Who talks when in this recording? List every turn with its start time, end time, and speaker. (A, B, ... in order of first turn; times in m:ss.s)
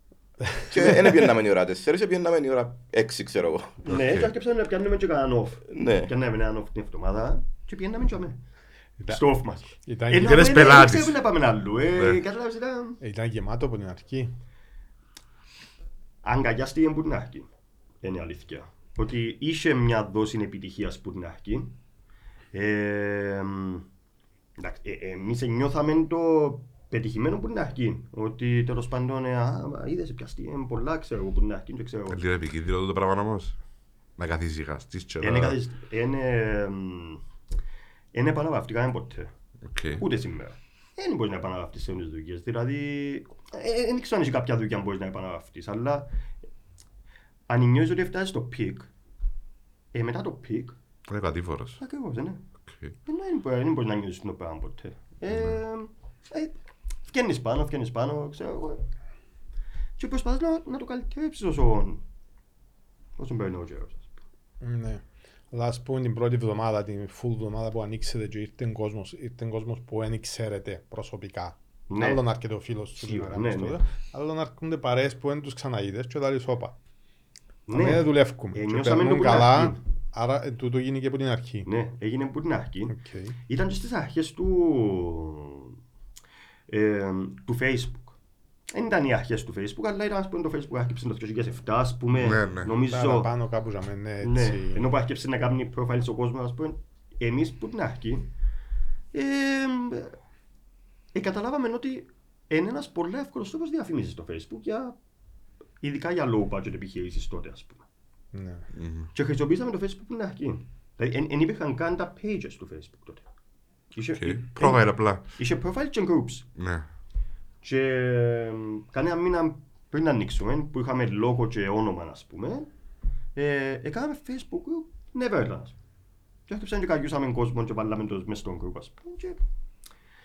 0:00.7-0:03.8 A
0:03.8-0:08.4 B
0:03.9-0:04.3 C
0:05.7-0:06.1 A
0:09.1-0:13.0 B
0:09.9-0:10.8 D
0:10.2-0:11.2 C
0:11.9-0:12.2 C
0:13.0-0:14.3 D
0:16.2-0:17.5 B
0:18.0-0:21.8 B
0:22.5-0:23.9 B
0:24.6-0:32.2 B
0:32.1-0:33.6 C
0:34.2-0:35.6 C
0:35.2-0:37.2 B
0:38.1-0:39.3 B
0:39.6-0:40.0 C
0:40.0-0:46.1 B
0:47.5-0:48.9 B
0:49.9-0:50.8 B
0:51.1-0:51.8 C
0:51.8-0:52.4 B
0:52.7-0:53.0 C
0:53.1-0:56.6 B
0:55.3-0:55.6 C
0:57.1-0:58.9 B
1:00.0-1:02.0 B
1:03.2-1:04.1 B
1:04.6-1:16.8 D
1:11.9-1:12.2 B
1:13.0-1:13.8 B
1:17.7-1:19.8 B
1:17.7-1:21.7 D
1:21.6-1:23.0 B
1:22.9-1:23.4 D
1:23.5-1:25.8 B
1:26.7-1:28.2 B
1:28.7-1:33.3 B
1:32.2-1:32.7 C
1:32.8-1:34.9 D
1:34.2-1:38.3 B
1:39.1-1:40.2 B
1:41.1-1:45.0 B
1:45.8-1:47.8 B
1:48.3-1:48.6 D
1:48.7-1:49.1 C
1:49.1-1:53.2 B
1:53.9-1:56.5 B
1:54.2-1:55.2 C
1:56.6-1:56.9 C
1:57.6-2:02.7 B
2:03.4-2:05.8 B
2:06.5-2:09.4 B